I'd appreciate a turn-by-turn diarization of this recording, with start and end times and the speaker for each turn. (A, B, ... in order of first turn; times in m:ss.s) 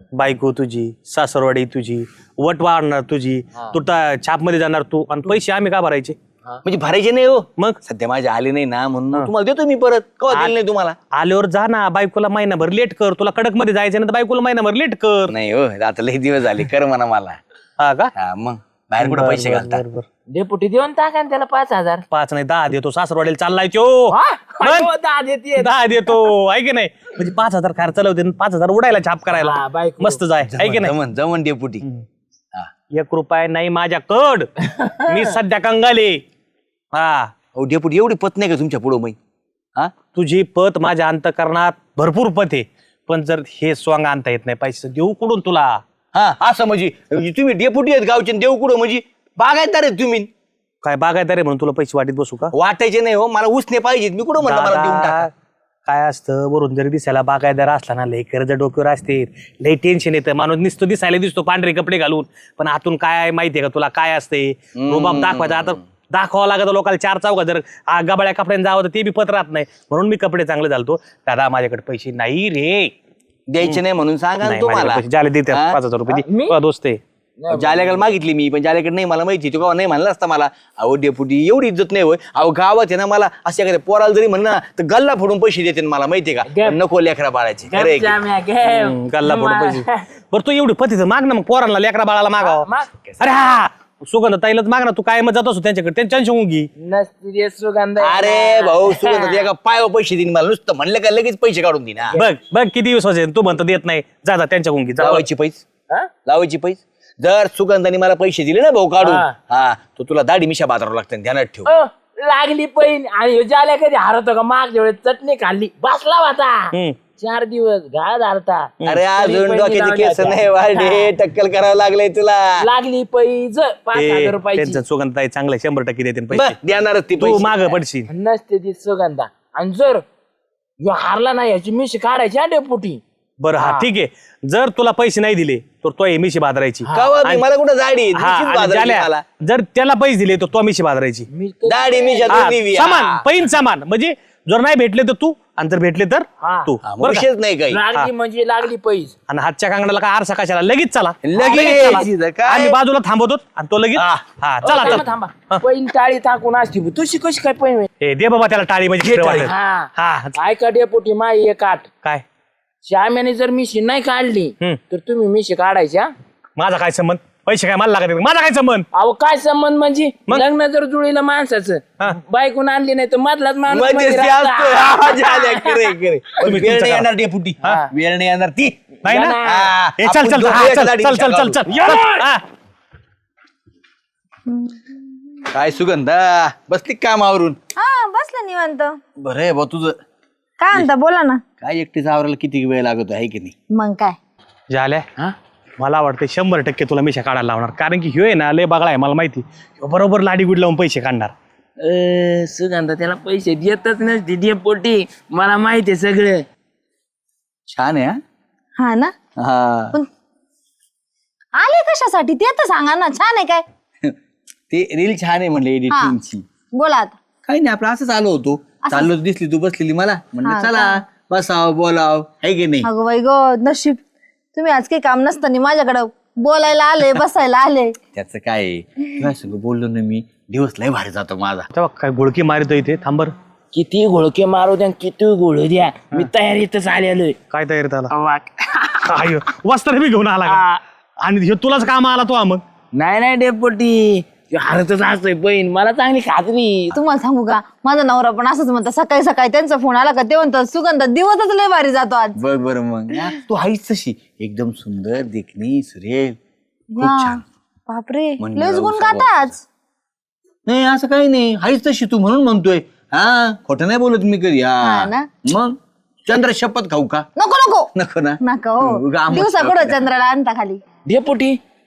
0:00.1-0:06.2 A
0:06.6-0:11.0 B
0:11.1-0:15.3 A
0:15.3-0:17.4 B
0:17.8-0:18.1 A
0:18.2-0:19.8 B
0:19.0-0:20.1 A
0:20.3-0:22.0 C
0:22.1-0:24.9 A
0:24.1-0:26.3 C
0:25.6-0:30.9 A
0:29.4-0:30.2 C
0:30.5-0:31.8 B
0:32.9-0:34.5 A
0:34.6-0:35.3 C
0:35.0-0:36.2 A
0:36.9-0:37.3 A
0:37.6-0:39.2 B
0:40.1-0:45.8 A
0:46.1-0:50.3 B
0:50.8-0:52.5 A
0:52.5-0:55.3 B
0:54.4-0:55.3 A
0:55.9-1:12.9 A
1:04.8-1:05.8 B
1:13.5-1:15.8 B
1:14.4-1:17.0 A
1:16.1-1:16.6 C
1:17.4-1:18.1 C
1:17.5-1:28.2 B
1:26.5-1:26.8 C
1:27.7-1:30.1 C
1:28.7-1:32.7 A
1:32.4-1:32.9 C
1:33.2-1:36.7 A
1:36.8-1:39.5 C
1:38.0-1:42.2 B
1:42.2-1:45.2 A
1:45.0-1:45.6 B
1:46.2-1:51.7 B
1:49.0-1:49.3 C
1:51.7-2:01.1 C
1:58.8-2:02.7 B
2:02.6-2:04.8 C
2:04.0-2:06.6 A
2:06.3-2:07.7 B
2:07.2-2:08.1 A
2:08.1-2:10.0 C
2:10.8-2:13.0 C
2:13.4-2:17.4 A
2:13.6-2:13.9 C
2:16.9-2:17.1 C
2:16.9-2:19.2 B
2:18.2-2:21.3 A
2:21.3-2:22.5 C
2:21.7-2:23.2 B
2:22.3-2:27.2 A
2:26.4-2:26.8 C
2:26.9-2:27.8 B
2:27.7-2:29.2 C
2:29.3-2:35.6 A
2:31.2-2:32.8 B
2:34.0-2:35.0 B
2:34.6-2:37.9 C
2:38.0-2:40.4 A
2:39.0-2:39.5 B
2:39.4-2:41.9 C
2:42.8-2:46.1 C
2:46.6-2:48.9 A
2:48.9-2:55.9 C
2:53.7-3:01.6 B
2:56.4-2:57.1 A
2:57.6-2:57.9 C
2:59.0-2:59.4 A
2:59.0-2:59.8 C
3:00.0-3:02.4 A
3:01.7-3:02.3 C
3:04.5-3:05.3 D
3:05.5-3:07.6 B
3:07.8-3:09.0 D
3:09.2-3:10.0 B
3:10.6-3:11.4 D
3:11.6-3:13.6 B
3:13.7-3:14.2 D
3:14.7-3:15.1 A
3:15.8-3:21.3 A
3:21.8-3:26.4 C
3:27.7-3:28.2 B
3:28.8-3:29.1 D
3:29.4-3:30.0 B
3:31.6-3:33.6 D
3:34.7-3:36.4 B
3:35.9-3:36.2 D
3:36.7-3:37.2 D
3:37.5-3:42.9 B
3:38.8-3:39.1 D
3:40.4-3:41.0 D
3:42.8-3:44.0 D
3:44.6-3:48.0 D
3:48.1-3:51.7 B
3:51.7-3:53.3 A
3:53.7-3:57.4 C
3:57.5-3:58.1 A
3:58.1-3:59.2 C
3:59.0-4:00.6 A
4:00.4-4:00.8 C
4:01.2-4:02.6 A
4:02.9-4:07.0 C
4:07.0-4:12.4 D
4:12.4-4:16.4 B
4:16.9-4:19.6 D
4:17.0-4:17.4 B
4:18.4-4:19.6 B
4:20.7-4:27.3 B
4:24.8-4:25.3 D
4:27.4-4:27.9 D
4:28.0-4:30.1 B
4:28.4-4:30.8 D
4:31.1-4:31.6 C